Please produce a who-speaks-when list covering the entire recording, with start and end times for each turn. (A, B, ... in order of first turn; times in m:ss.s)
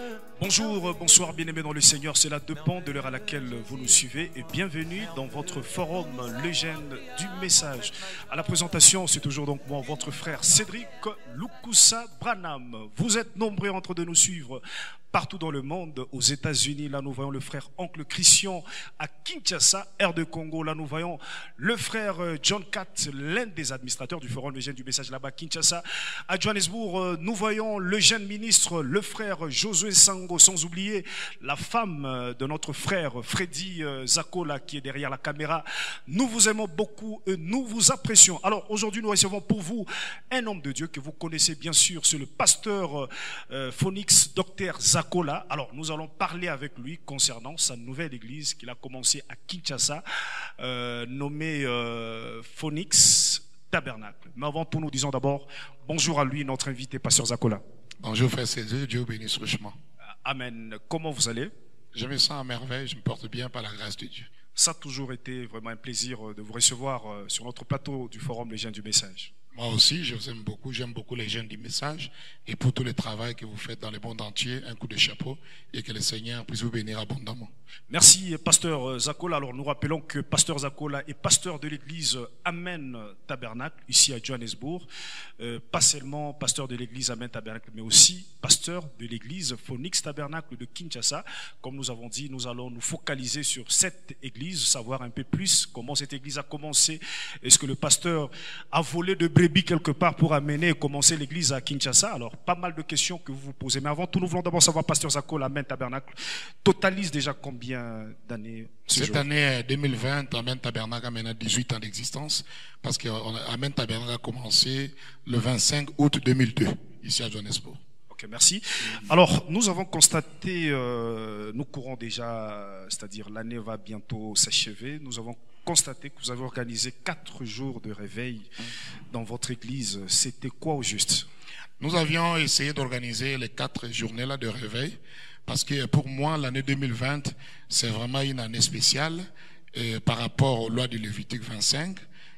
0:00.4-0:50.0 A
0:50.6-0:57.6 A
0:58.0-0:59.8 B
1:00.2-1:01.5 A
1:01.9-1:04.3 B
1:04.5-1:09.3 A
1:09.5-1:17.5 B
1:17.9-1:24.8 A
1:25.4-1:49.3 A
1:48.9-1:57.8 B
1:58.1-2:08.5 A
2:09.1-2:11.3 A
2:11.8-2:22.0 B